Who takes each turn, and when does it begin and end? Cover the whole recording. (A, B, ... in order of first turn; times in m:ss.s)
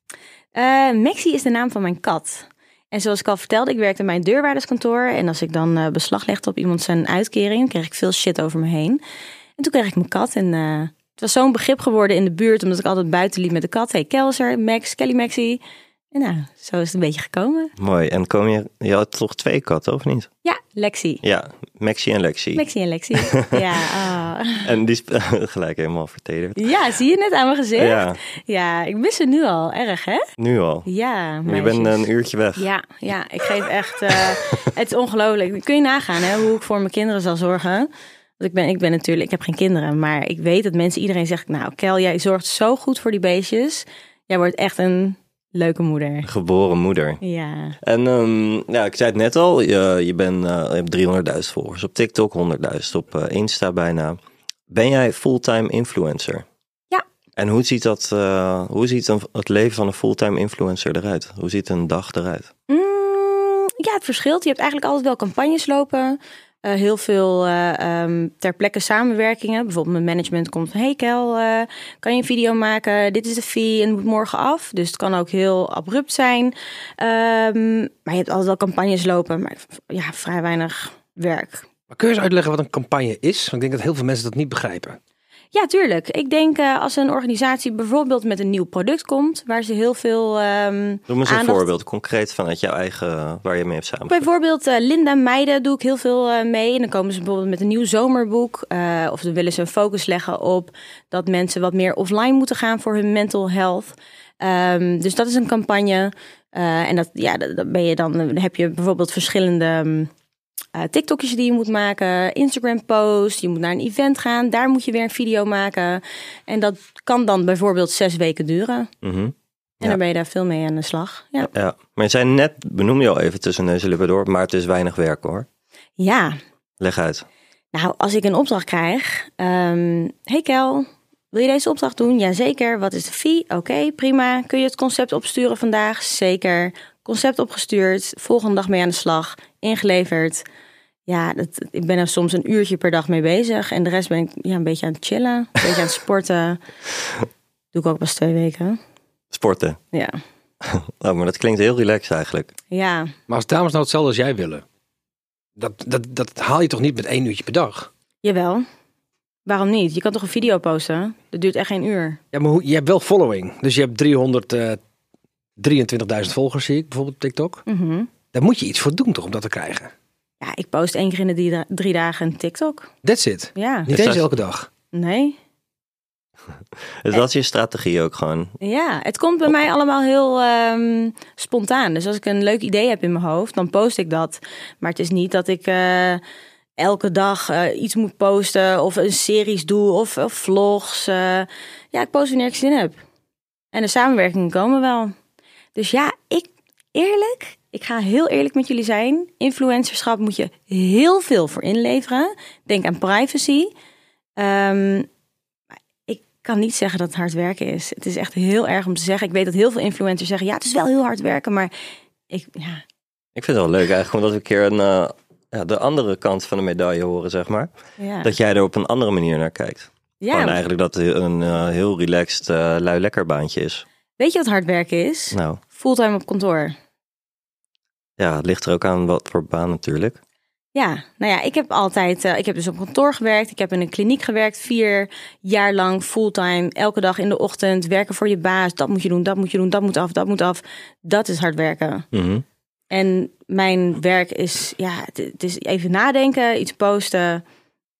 0:00.5-0:09.0 A
0:09.6-0:15.6 A
0:16.1-0:17.7 A
0:17.8-0:20.3 B
0:20.4-0:21.2 A
0:21.2-0:22.6 B
0:22.5-0:24.7 A
0:23.1-0:23.6 B
0:24.6-0:26.7 B
0:26.6-0:30.2 A
0:27.8-0:28.2 B
0:30.4-0:30.9 B
0:30.8-0:46.3 A
0:31.4-0:32.6 B
0:46.2-0:47.2 B
0:47.2-0:47.8 A
0:47.8-0:54.2 B
0:54.7-0:56.4 B
0:57.4-1:02.5 B
1:02.7-1:21.7 A
1:21.9-1:25.0 C
1:25.5-1:31.6 A
1:31.1-1:34.2 B
1:34.1-1:50.1 A
1:50.7-1:58.9 A
1:59.0-2:00.0 B
1:59.8-2:01.5 A
2:01.5-2:05.4 B
2:06.0-2:06.4 A
2:06.8-2:07.2 B
2:07.7-2:20.4 A
2:21.1-2:26.6 A
2:27.7-2:28.8 A
2:29.3-2:29.8 B
2:29.9-2:30.2 A
2:30.6-2:32.5 B
2:32.7-2:33.1 A
2:33.3-2:34.6 C
2:35.6-2:37.9 C
2:38.2-2:38.6 A
2:39.4-2:42.2 A
2:42.3-2:44.8 C
2:45.6-2:47.6 C
2:47.7-2:48.1 A
2:48.3-2:49.9 C
2:50.4-2:52.9 A
2:53.0-2:54.7 C
2:53.5-2:53.9 A
2:53.9-2:54.2 B
2:54.9-2:55.4 A
2:57.0-2:58.5 B
2:58.6-3:06.2 A
3:06.8-3:13.0 A
3:13.7-3:15.1 A
3:15.7-3:23.7 A
3:24.4-3:25.1 A
3:26.1-3:31.7 A
3:32.3-3:32.8 A
3:33.4-3:37.7 B
3:38.0-3:38.3 A
3:38.2-3:43.8 B
3:40.2-3:40.6 A
3:44.2-3:46.7 A
3:45.3-3:45.6 B
3:48.2-3:50.2 B
3:50.7-4:02.1 A
4:02.1-4:02.4 B
4:02.9-4:07.4 A